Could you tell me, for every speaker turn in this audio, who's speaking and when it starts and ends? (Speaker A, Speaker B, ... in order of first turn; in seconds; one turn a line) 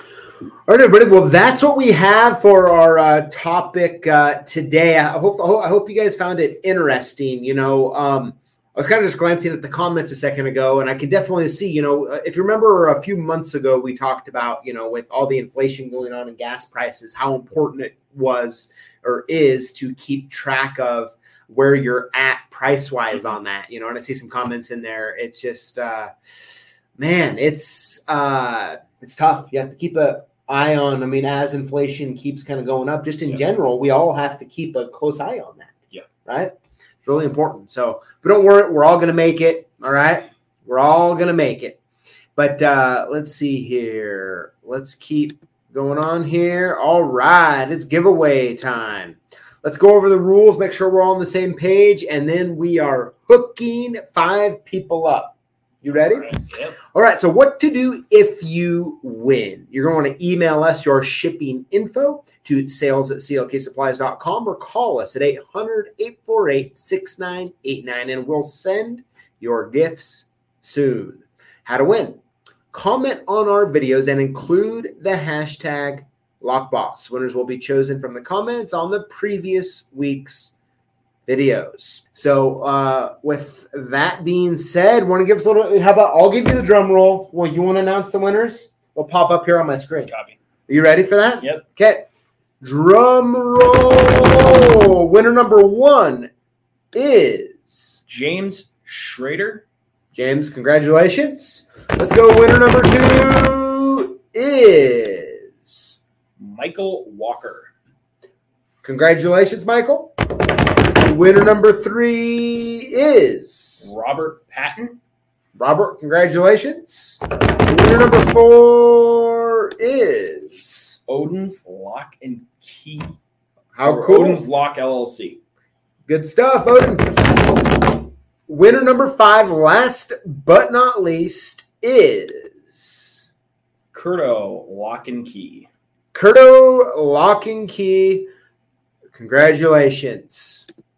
Speaker A: 0.7-26.1
Speaker A: 27.0-36.5
Speaker A: 37.0-41.8
Speaker A: 42.4-56.3
Speaker B: 55.9-56.8
Speaker A: 56.9-72.2
Speaker A: 72.7-80.5
Speaker A: 81.3-90.1
Speaker B: 90.1-90.4
Speaker A: 90.7-92.1
Speaker A: 92.6-96.3
Speaker A: 96.9-98.0
Speaker B: 98.1-99.7
Speaker A: 100.1-106.0
Speaker B: 106.4-107.7
Speaker A: 108.8-113.9
Speaker B: 113.8-115.0
Speaker A: 115.6-121.0
Speaker B: 121.1-123.1
Speaker A: 123.8-124.5
Speaker B: 123.8-125.4
Speaker A: 126.1-127.7
Speaker A: 128.5-133.2
Speaker B: 133.9-135.7
Speaker A: 136.1-138.3
Speaker A: 139.2-140.7